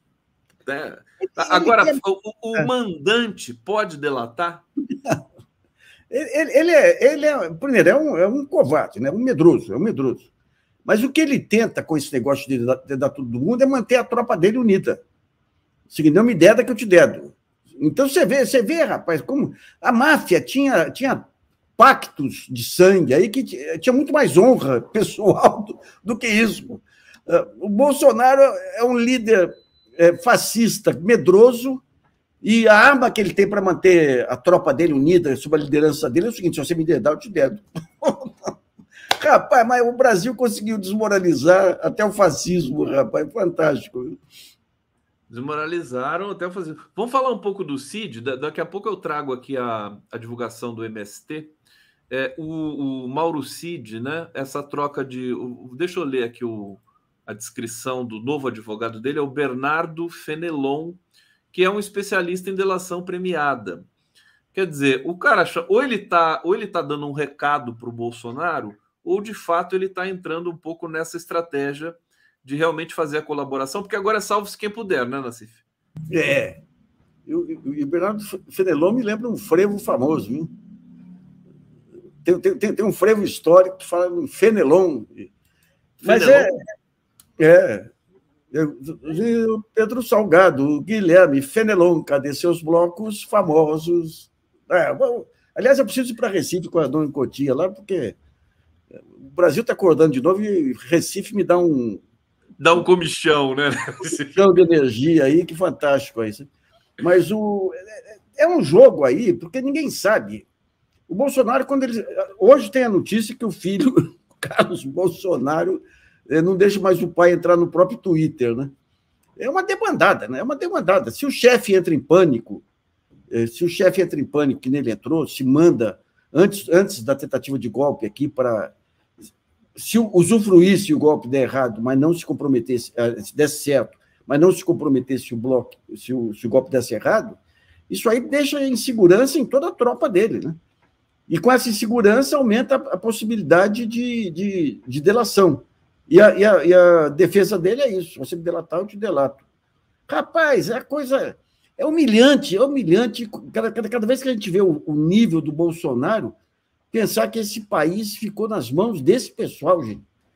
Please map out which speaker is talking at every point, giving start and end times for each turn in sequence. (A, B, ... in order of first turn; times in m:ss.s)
0:00.6-0:04.6 A
0:01.3-0:02.0 B
0:06.1-0:10.3 B
0:10.8-0:15.0 B
0:15.9-0:21.2 B
0:21.8-0:31.8 B
0:32.4-0:38.5 B
0:39.2-0:44.2 B
0:45.3-0:51.6 A
0:52.1-1:03.9 A
1:04.5-1:15.6 A
1:16.1-1:16.6 B
1:17.3-1:20.5 B
1:22.2-1:25.3 B
1:26.0-1:26.5 A
1:26.0-1:26.5 B
1:27.4-1:27.9 B
1:28.5-1:38.2 B
1:39.0-1:42.0 B
1:42.6-1:44.4 A
1:44.3-1:50.5 B
1:51.1-1:58.7 B
1:59.4-2:02.6 B
2:03.3-2:08.7 B
2:09.8-2:20.5 B
2:21.3-2:29.4 B
2:30.1-2:36.4 B
2:36.9-2:40.0 B